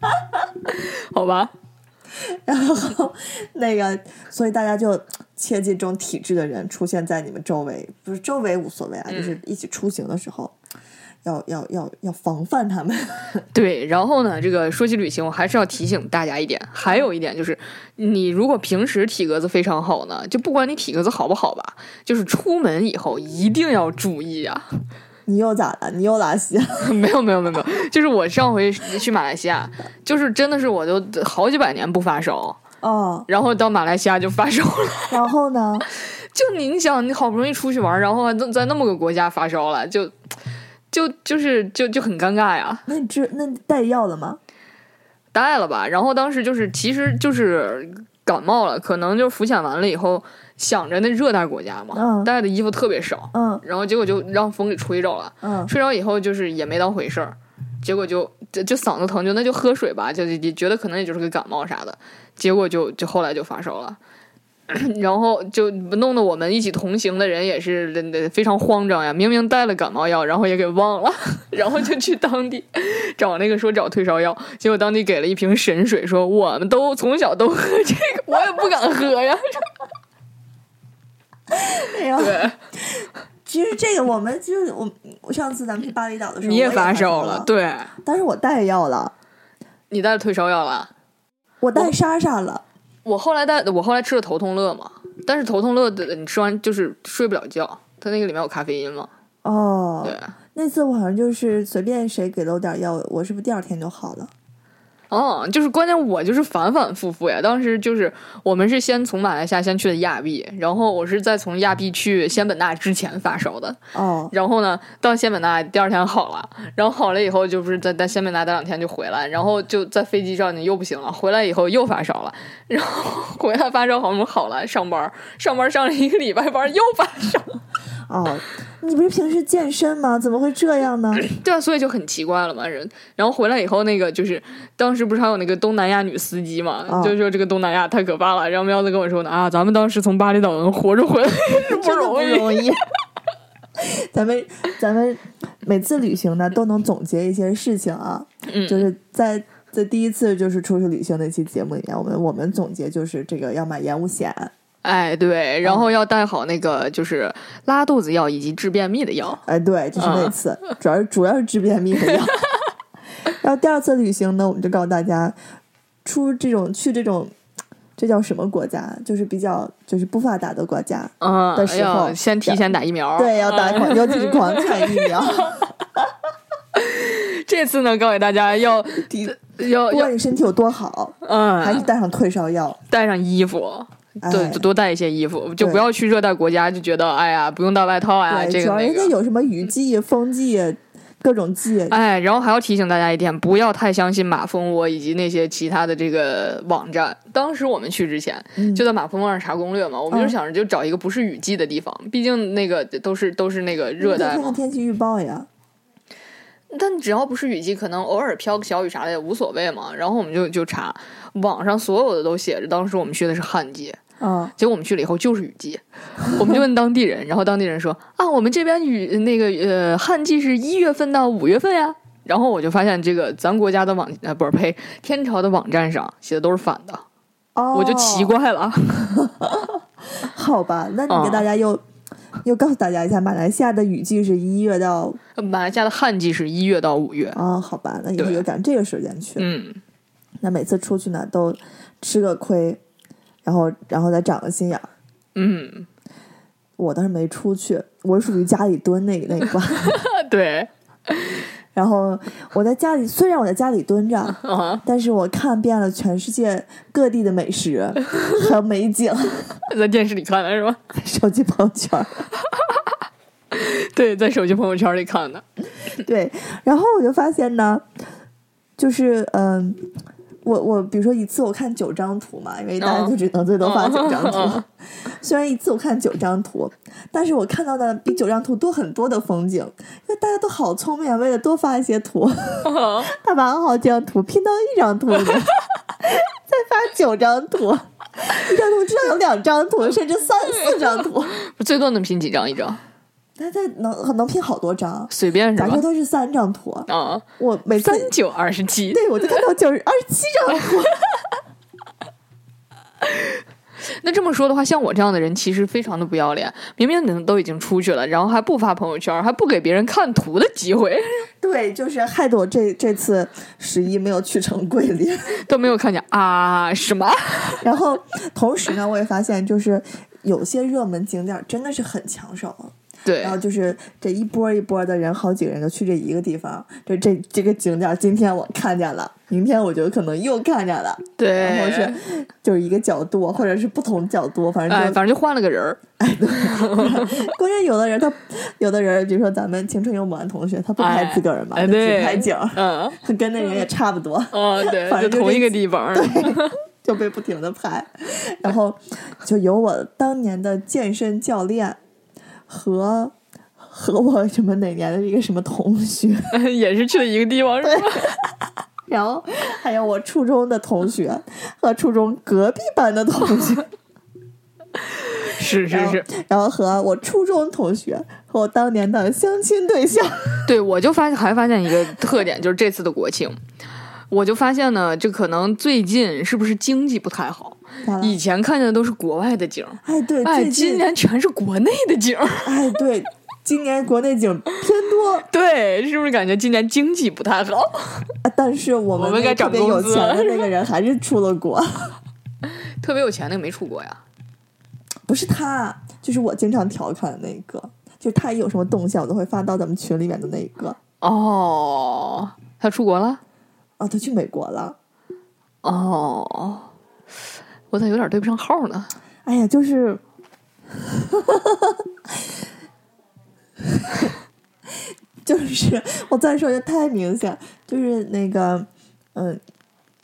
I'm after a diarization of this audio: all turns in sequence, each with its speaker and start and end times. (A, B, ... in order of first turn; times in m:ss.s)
0:00.6-0:01.5 A
0:02.4-0:10.5 B
0:09.1-0:09.4 A
0:11.2-0:13.4 B
0:13.5-0:24.7 A
0:25.3-0:26.9 B
0:26.8-0:32.6 A
0:32.8-0:33.3 B
0:33.3-0:35.2 A
0:35.1-0:35.9 B
0:36.0-0:40.1 A
0:40.9-0:42.9 A
0:42.9-0:44.4 B
0:45.3-1:04.0 A
0:51.9-0:52.3 B
0:53.3-0:53.6 B
0:55.4-0:55.7 B
1:04.7-1:19.7 A
1:21.5-1:27.5 B
1:22.2-1:22.6 A
1:26.4-1:27.9 A
1:28.0-1:29.1 B
1:29.9-1:30.9 A
1:31.6-1:32.6 B
1:33.0-1:39.1 A
1:39.4-1:44.3 B
1:40.0-1:40.3 A
1:45.1-1:53.8 A
1:53.9-1:54.3 B
1:54.3-2:07.6 A
2:08.1-2:11.3 B
2:11.2-2:22.7 A
2:16.9-2:17.1 B
2:21.5-2:22.8 B
2:23.8-2:34.5 B
2:28.5-2:28.9 A
2:34.8-2:39.4 A
2:35.6-2:35.9 B
2:39.4-2:42.4 B
2:40.0-2:40.3 A
2:43.3-2:45.4 B
2:46.0-2:47.3 B
2:48.0-2:52.6 B
2:51.2-2:55.2 A
2:53.2-2:55.7 B
2:56.7-3:00.1 A
2:59.0-3:02.8 B
3:01.2-3:01.9 A
3:02.9-3:09.1 A
3:04.2-3:04.6 B
3:05.6-3:05.8 B
3:08.3-3:12.0 B
3:11.9-3:24.6 A
3:18.6-3:18.8 B
3:24.0-3:25.5 B
3:26.7-3:34.0 A
3:34.2-3:34.5 B
3:34.6-3:47.0 A
3:47.5-3:48.3 B
3:47.7-3:49.2 A
3:49.2-3:51.8 B
3:51.1-3:51.5 A
3:52.4-3:55.2 B
3:55.4-3:57.4 A
3:57.3-3:59.5 B
3:58.2-3:58.4 A
3:59.4-3:59.8 A
4:00.4-4:02.8 B
4:03.4-4:04.9 B
4:05.3-4:05.9 A
4:06.8-4:10.0 B
4:09.8-4:11.4 A
4:11.7-4:19.6 B
4:14.3-4:14.8 A
4:19.7-4:20.8 A
4:20.9-4:22.2 B
4:22.5-4:22.9 A
4:23.5-4:25.4 A
4:26.0-4:27.8 B
4:28.8-4:29.9 B
4:30.4-4:51.4 B
4:32.8-4:34.6 A
4:42.6-4:43.1 A
4:51.4-4:52.8 A
4:53.4-4:58.1 B
4:55.1-4:55.8 A
4:56.9-4:57.2 A
4:57.8-4:59.4 A
4:58.9-5:01.0 B
5:03.0-5:11.3 A
5:11.4-5:15.4 B
5:15.4-5:17.6 A
5:17.6-5:35.0 B
5:23.0-5:23.4 A
5:31.2-5:32.0 A
5:34.7-5:35.8 A
5:36.0-5:51.8 B
5:36.4-5:37.3 A
5:40.8-5:43.0 A
5:44.3-5:46.5 A
5:52.5-5:56.3 B
5:56.3-5:58.1 A
5:57.6-5:58.1 B
5:58.9-6:03.7 B
6:04.8-6:06.0 A
6:05.6-6:10.5 B
6:10.5-6:13.4 A
6:14.1-6:22.6 A
6:17.8-6:18.2 B
6:19.8-6:20.8 B
6:22.4-6:25.3 B
6:25.3-6:28.1 A
6:28.2-6:31.9 B
6:29.0-6:30.5 A
6:32.4-6:34.0 A
6:35.1-6:40.8 B
6:41.0-6:43.2 A
6:43.8-6:44.8 B
6:45.6-6:46.7 A
6:47.7-6:48.9 A
6:49.2-6:50.0 B
6:50.8-6:51.8 B
6:53.7-6:54.1 B
6:55.2-6:59.4 B